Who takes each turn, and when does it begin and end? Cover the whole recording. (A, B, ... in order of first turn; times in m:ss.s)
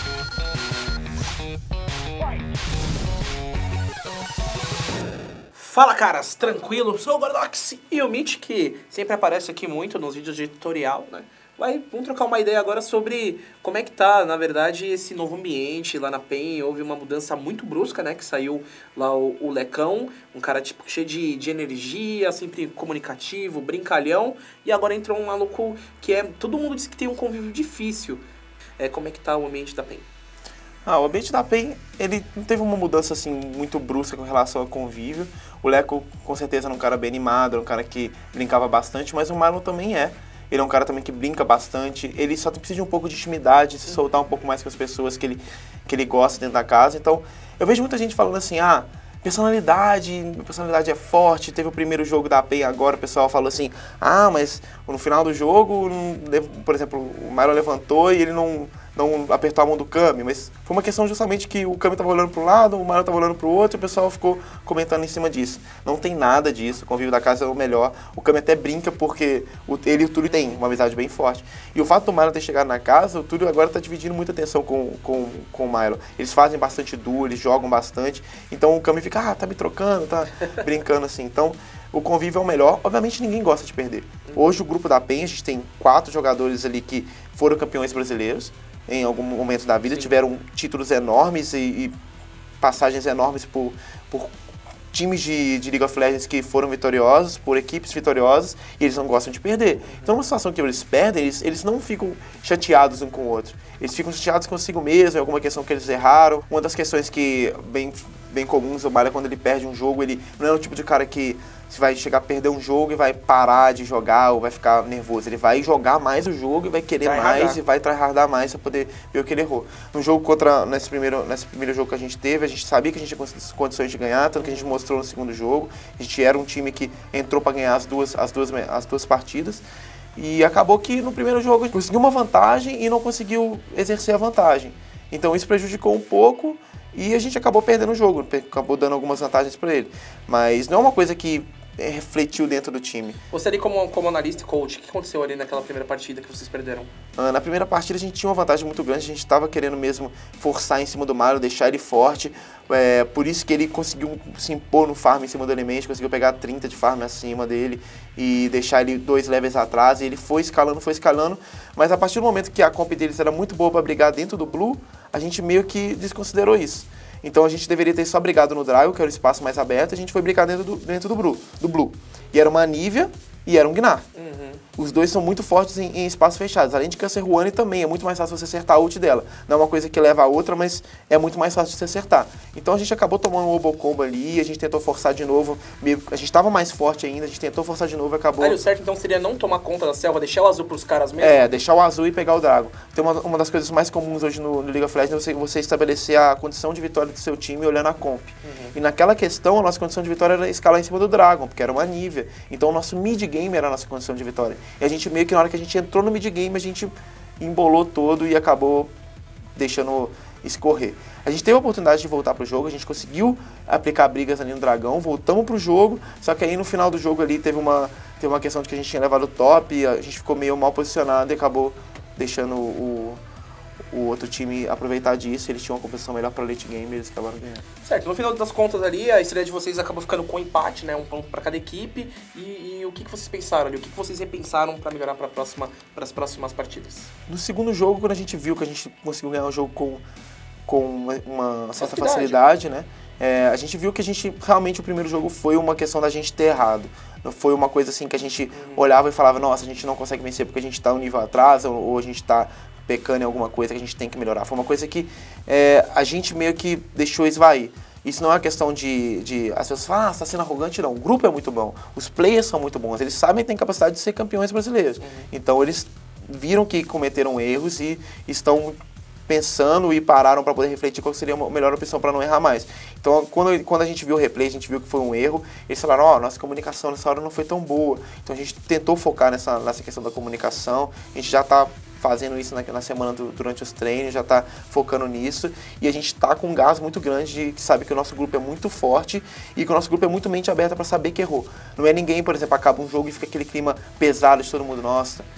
0:05.5-0:28.2 A
0:28.8-0:30.1 A
0:30.8-1:32.0 B
1:32.6-1:34.3 B
1:34.9-2:09.6 B
1:57.0-1:57.6 A
2:04.4-2:04.7 A
2:10.2-2:23.2 B
2:23.3-2:26.9 A
2:27.2-2:54.1 B
2:54.1-2:54.6 A
2:54.8-3:08.6 B
3:08.4-3:11.5 A
3:11.2-3:28.9 B
3:18.4-3:18.7 A
3:29.5-3:43.2 B
3:43.9-3:47.6 B
3:47.8-3:57.1 A
3:57.3-4:00.0 B
4:00.7-4:55.2 B
4:01.8-4:02.4 A
4:08.5-4:08.8 A
4:25.0-4:25.3 A